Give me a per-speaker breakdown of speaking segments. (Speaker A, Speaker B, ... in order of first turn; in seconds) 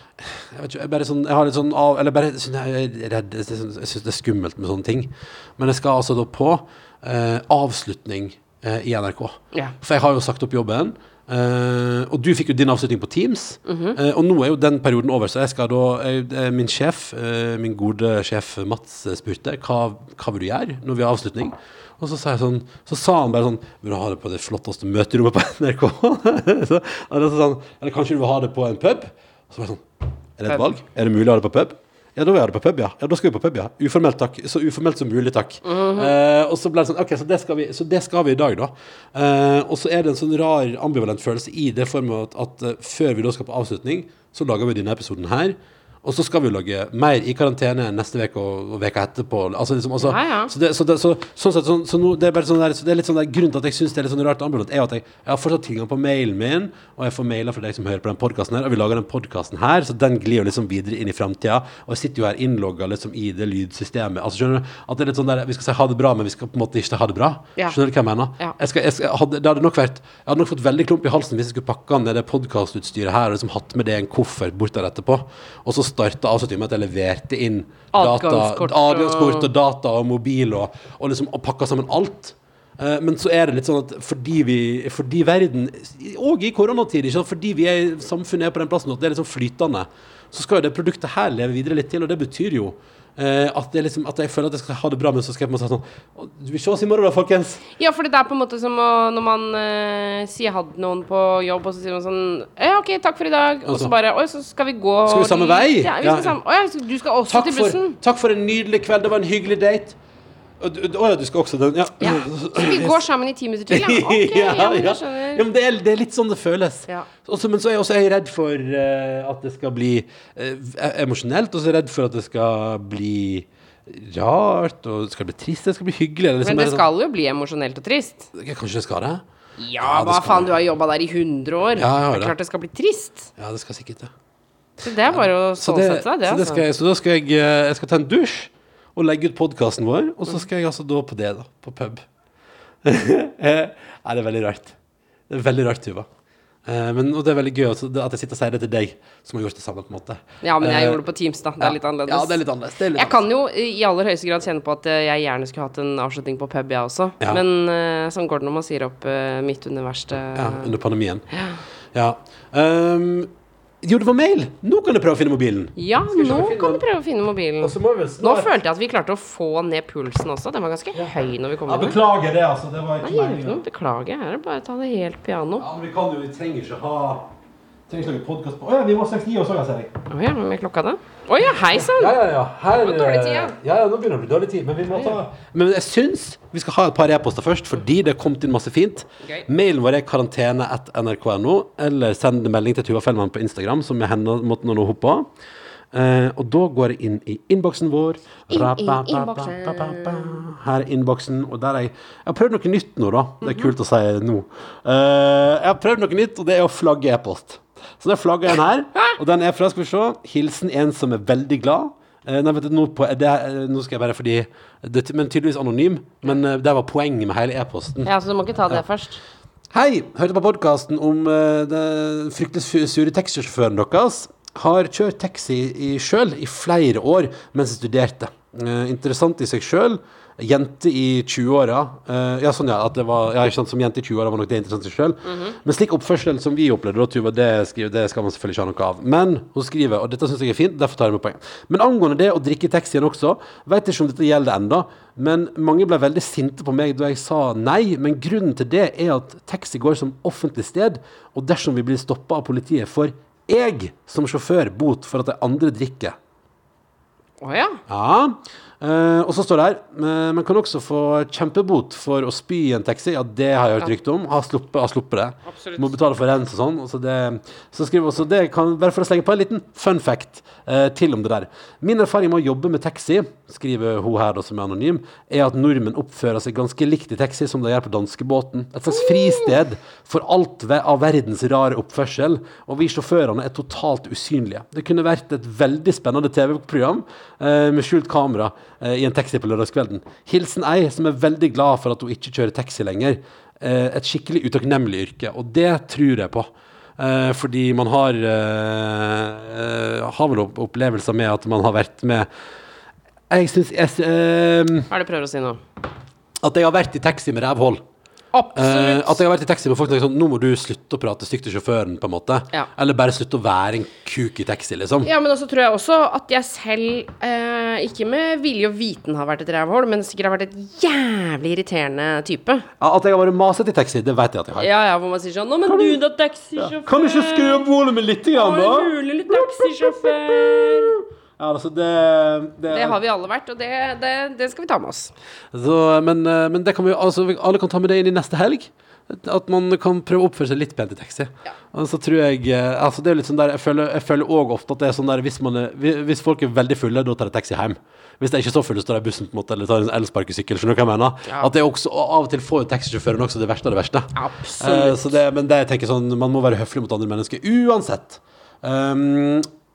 Speaker A: 0.2-29.8, 30.4-97.6, 103.7-103.9, 105.0-106.3, 107.3-110.0, 110.6-113.0, 113.7-126.8, 128.3-129.2, 129.8-130.5, 131.8-132.3, 133.4-134.1, 135.1-142.0, 142.8-144.8, 145.3-146.1, 146.6-151.0, 151.6-153.2, 160.3-161.2, 161.9-163.3, 163.8-166.8, 167.6-168.5, 171.7-173.6, 175.6-177.3, 177.9-179.9, 181.7-195.3, 195.9-218.1, 219.7-256.1, 257.9-302.3, 303.3-304.9, 306.4-307.8, 308.5-315.1, 322.8-324.7, 325.7-325.9, 326.6-333.0, 335.5-359.5
Speaker B: 13.7-14.0, 35.6-36.1, 50.0-50.5, 77.9-79.5, 97.8-108.0, 112.0-115.4, 126.4-128.3, 129.6-133.3, 134.8-136.6, 150.4-152.4, 152.9-160.7, 161.3-161.6, 165.8-172.0, 173.0-175.7, 180.1-182.2, 182.8-183.6, 198.5-200.4, 203.4-203.7, 218.0-219.2, 235.2-235.6, 257.4-257.8, 265.5-265.9, 278.9-279.5, 304.9-305.6, 308.3-309.2, 315.0-322.6, 324.6-327.7, 328.3-331.0, 332.7-335.1, 354.1-355.2